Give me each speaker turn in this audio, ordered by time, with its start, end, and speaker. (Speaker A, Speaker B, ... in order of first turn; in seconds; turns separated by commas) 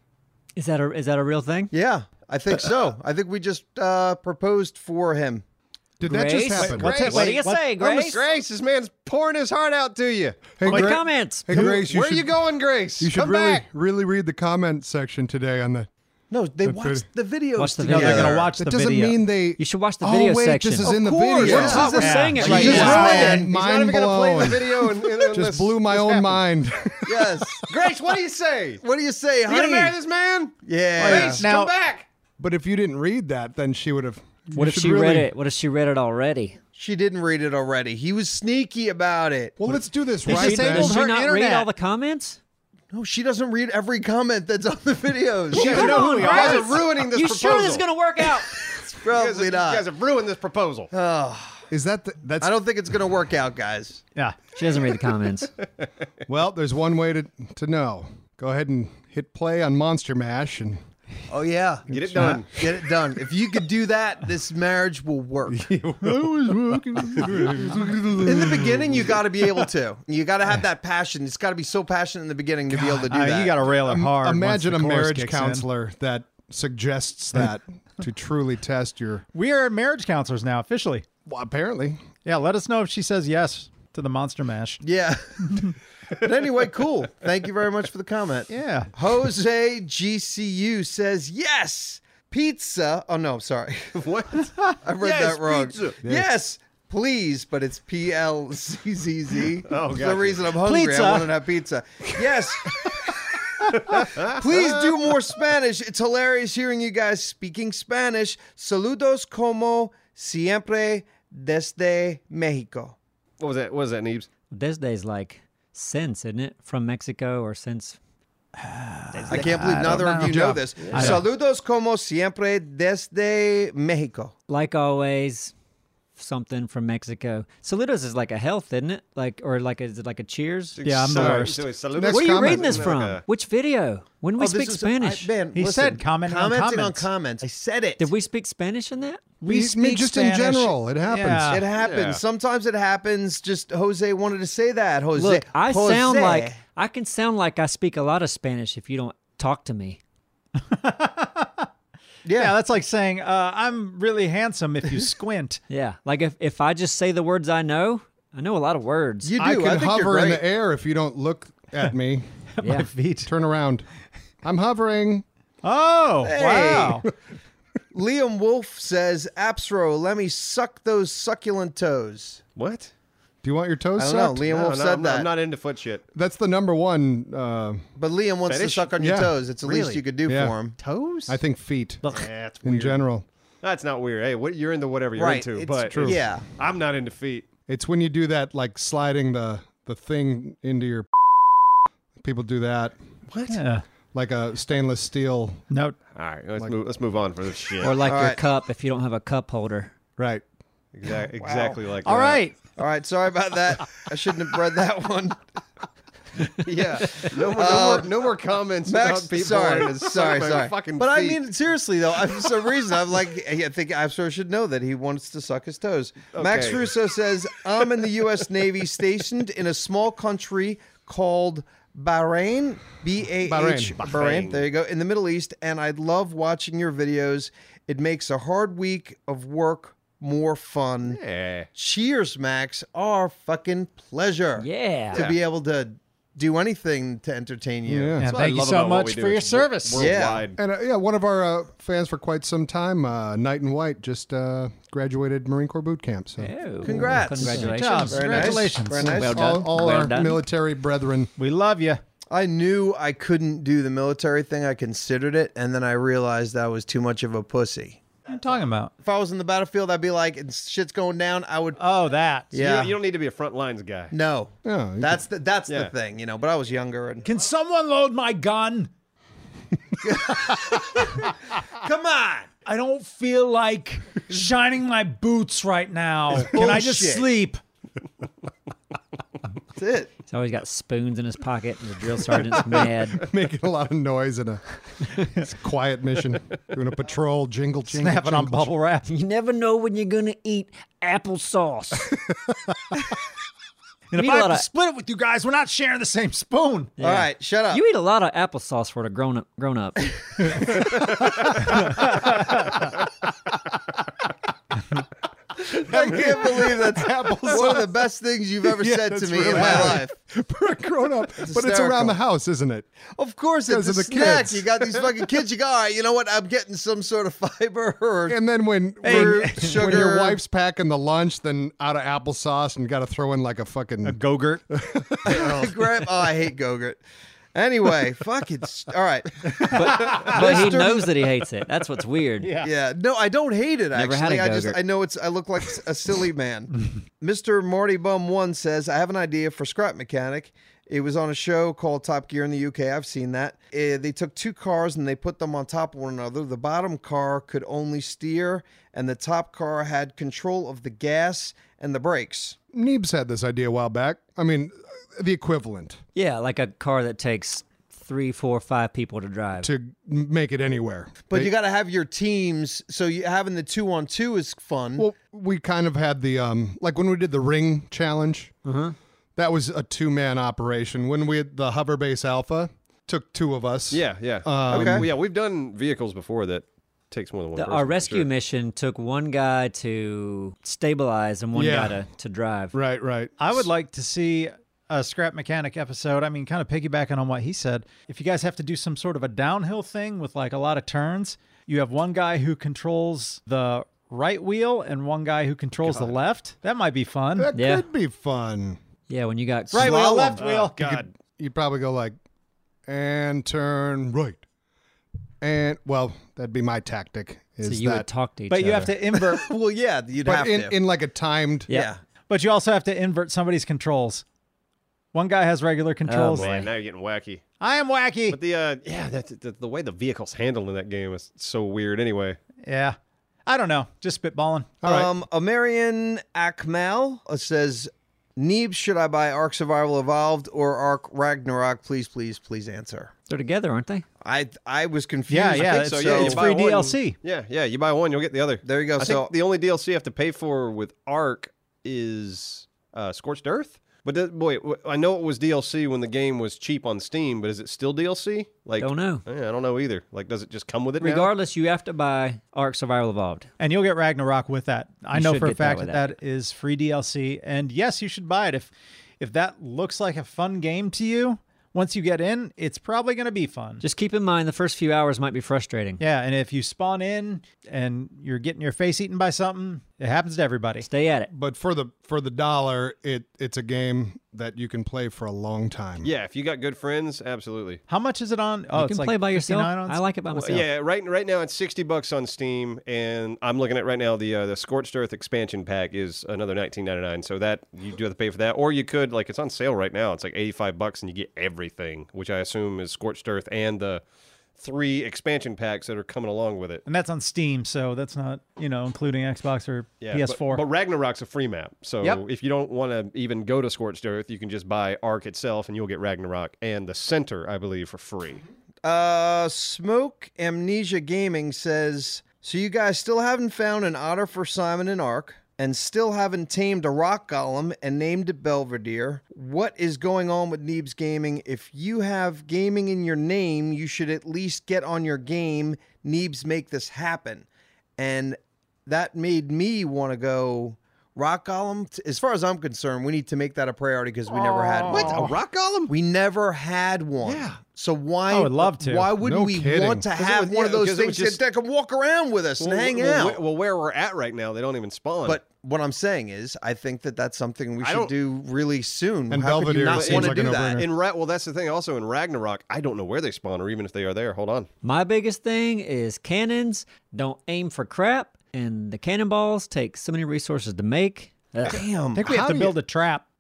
Speaker A: 0.6-1.7, Speaker B: 1.7-5.4, Speaker C: 6.0-7.3, Speaker A: 6.0-8.2, Speaker D: 6.6-8.2, Speaker E: 7.0-10.7, Speaker C: 10.6-12.3, Speaker A: 10.6-11.6, Speaker D: 10.7-11.0, Speaker E: 11.5-13.7, Speaker C: 13.0-15.9, Speaker B: 16.3-18.5, Speaker C: 16.6-17.1, Speaker A: 17.6-18.4, Speaker D: 17.6-19.2, Speaker C: 18.6-27.6, Speaker A: 19.6-23.4, Speaker E: 20.8-26.4, Speaker B: 21.4-23.5, Speaker D: 21.5-23.5, Speaker B: 27.0-27.6, Speaker E: 27.6-28.8, Speaker B: 28.8-29.9, Speaker E: 29.5-32.1, Speaker B: 30.6-31.4, Speaker D: 31.0-31.7, Speaker C: 32.4-35.3, Speaker A: 34.5-36.6, Speaker B: 36.8-39.6, Speaker C: 39.6-41.0, Speaker D: 40.2-41.7, Speaker A: 40.3-42.4, Speaker B: 42.9-45.9, Speaker A: 45.5-48.6, Speaker E: 45.5-50.9, Speaker D: 45.7-46.7, Speaker B: 49.0-49.9, Speaker B: 50.9-51.6, Speaker C: 51.7-52.5, Speaker B: 52.4-54.0, Speaker A: 54.5-55.5, Speaker C: 56.3-60.8, Speaker B: 61.3-65.7, Speaker E: 61.9-62.6, Speaker C: 61.9-62.4, Speaker C: 65.5-69.1, Speaker D: 66.1-67.7, Speaker B: 68.2-73.6, Speaker D: 72.8-75.7, Speaker C: 73.8-79.2, Speaker D: 79.3-81.1, Speaker C: 81.3-82.0, Speaker D: 82.2-84.8, Speaker B: 84.8-113.0, Speaker D: 88.5-88.9, Speaker E: 94.0-96.0, Speaker E: 99.7-100.5, Speaker D: 100.6-101.4, Speaker E: 103.7-105.1, Speaker E: 113.4-114.3, Speaker A: 114.5-118.0, Speaker D: 118.6-121.2, Speaker A: 119.1-119.6, Speaker B: 119.3-124.3, Speaker C: 120.2-120.6, Speaker E: 120.8-121.2, Speaker A: 124.5-125.5, Speaker A: 126.2-131.3, Speaker E: 130.8-133.2, Speaker D: 130.8-131.7, Speaker C: 131.9-132.9, Speaker A: 132.1-135.3, Speaker B: 134.4-138.1, Speaker D: 135.5-137.1, Speaker A: 138.0-139.2, Speaker D: 139.4-141.7, Speaker C: 139.4-141.7, Speaker B: 141.5-146.6, Speaker E: 141.7-142.2, Speaker A: 145.2-150.0, Speaker D: 150.6-151.7, Speaker B: 152.2-152.6, Speaker D: 152.3-155.6, Speaker A: 155.7-159.3, Speaker B: 159.2-160.4, Speaker C: 159.4-162.3, Speaker D: 162.6-163.3, Speaker A: 162.6-162.9, Speaker C: 163.2-163.9, Speaker C: 164.4-165.2, Speaker D: 165.6-167.1, Speaker B: 166.2-167.1, Speaker B: 167.9-172.4, Speaker E: 172.6-172.9, Speaker C: 173.4-174.5, Speaker B: 174.0-175.3, Speaker E: 174.5-176.0, Speaker C: 176.1-177.8, Speaker B: 178.0-180.8, Speaker E: 178.5-178.9, Speaker C: 179.0-179.3, Speaker D: 179.7-180.0, Speaker C: 180.2-180.6, Speaker D: 180.8-181.3, Speaker C: 181.3-182.0, Speaker E: 182.1-183.0, Speaker C: 182.6-183.3, Speaker E: 183.6-187.5, Speaker B: 185.2-186.5, Speaker C: 185.9-186.2, Speaker C: 187.7-191.2, Speaker C: 192.2-192.9, Speaker E: 193.3-193.6, Speaker D: 193.5-193.8, Speaker C: 194.1-195.6, Speaker D: 195.7-196.0, Speaker E: 196.2-198.0, Speaker A: 197.8-199.9, Speaker B: 198.0-198.4, Speaker C: 200.2-200.4, Speaker E: 200.9-202.4, Speaker B: 201.4-201.8, Speaker D: 202.0-202.6, Speaker B: 202.8-205.4, Speaker E: 206.6-211.4, Speaker B: 207.1-208.2, Speaker B: 208.9-231.2, Speaker E: 216.3-216.9, Speaker C: 223.4-224.0, Speaker E: 224.0-224.6, Speaker E: 231.1-231.7, Speaker B: 231.7-238.2, Speaker A: 234.6-235.2, Speaker E: 235.1-235.4, Speaker C: 237.9-238.3, Speaker D: 238.2-240.2, Speaker E: 238.2-240.6, Speaker B: 240.0-240.5, Speaker C: 240.6-247.2, Speaker A: 246.4-250.4, Speaker B: 246.8-249.5, Speaker D: 247.4-249.2, Speaker C: 249.0-251.3, Speaker D: 251.4-252.0, Speaker B: 252.3-258.1, Speaker D: 258.3-258.9, Speaker B: 259.0-261.8, Speaker D: 261.8-262.5, Speaker B: 262.5-262.9, Speaker E: 262.6-264.1, Speaker B: 264.1-267.3, Speaker C: 264.6-265.2, Speaker E: 265.7-265.9, Speaker D: 267.2-268.9, Speaker B: 270.0-272.5, Speaker D: 272.6-277.6, Speaker B: 276.4-277.3, Speaker B: 279.8-280.1, Speaker A: 280.3-283.2, Speaker C: 283.2-288.7, Speaker D: 287.9-289.1, Speaker A: 289.1-292.1, Speaker D: 294.1-297.0, Speaker A: 294.1-294.7, Speaker A: 297.0-300.1, Speaker B: 297.0-297.8, Speaker D: 301.8-302.7, Speaker B: 305.6-310.1, Speaker C: 305.7-308.0, Speaker C: 308.6-312.9, Speaker D: 309.5-310.0, Speaker B: 311.4-312.1, Speaker B: 313.2-318.4, Speaker C: 313.7-315.1, Speaker C: 318.3-324.2, Speaker B: 319.0-320.4, Speaker D: 319.0-320.1, Speaker D: 324.1-324.6, Speaker C: 324.7-325.7, Speaker B: 325.2-327.0, Speaker B: 327.5-331.2, Speaker D: 329.6-330.9, Speaker A: 329.7-332.6, Speaker D: 332.4-332.7, Speaker B: 332.6-352.6, Speaker A: 333.9-334.8, Speaker C: 352.7-356.0, Speaker A: 356.1-359.7, Speaker C: 359.6-361.5, Speaker B: 361.3-365.1, Speaker C: 365.0-368.5, Speaker A: 368.6-369.0, Speaker C: 369.4-375.1, Speaker E: 373.9-378.3, Speaker B: 374.7-375.1, Speaker A: 377.6-382.8, Speaker C: 381.5-382.0, Speaker C: 382.7-383.7, Speaker D: 383.4-397.5, Speaker C: 397.4-398.8, Speaker A: 397.6-397.9, Speaker A: 399.1-400.0, Speaker D: 399.7-401.0, Speaker B: 399.7-400.5, Speaker E: 400.4-401.1, Speaker C: 401.2-402.2, Speaker C: 402.9-404.4, Speaker C: 405.4-408.1, Speaker A: 407.6-409.0, Speaker D: 408.5-409.5, Speaker B: 409.2-410.8, Speaker C: 410.2-411.7, Speaker B: 411.7-412.0, Speaker D: 412.3-414.2, Speaker D: 415.1-416.6, Speaker A: 416.1-416.7, Speaker E: 416.4-417.4, Speaker D: 417.6-418.4, Speaker E: 418.3-422.4, Speaker D: 422.6-424.8, Speaker B: 424.8-433.1, Speaker C: 424.8-425.1, Speaker A: 433.3-434.1, Speaker B: 434.2-436.5, Speaker D: 435.3-437.2, Speaker E: 435.6-451.3, Speaker B: 438.6-439.3, Speaker A: 448.8-449.2, Speaker A: 451.0-453.5, Speaker D: 453.6-463.8, Speaker A: 455.1-456.1, Speaker A: 463.8-466.0, Speaker D: 466.0-470.9, Speaker A: 470.8-471.3, Speaker C: 471.3-476.1, Speaker E: 476.0-477.8, Speaker D: 477.9-480.0, Speaker A: 478.7-480.6, Speaker E: 480.3-494.0, Speaker E: 494.6-496.8, Speaker D: 496.9-500.6, Speaker E: 500.0-508.4, Speaker B: 508.8-535.3, Speaker D: 534.5-535.3, Speaker E: 534.9-535.9, Speaker B: 535.9-543.4, Speaker E: 537.2-537.6, Speaker D: 538.3-539.1, Speaker C: 539.2-540.1, Speaker E: 540.1-541.4, Speaker E: 542.6-545.4, Speaker B: 545.3-550.8, Speaker E: 547.8-548.1, Speaker C: 549.3-550.9, Speaker E: 549.9-554.7, Speaker A: 554.8-561.8, Speaker B: 561.7-562.2, Speaker D: 562.2-563.2, Speaker C: 562.2-562.8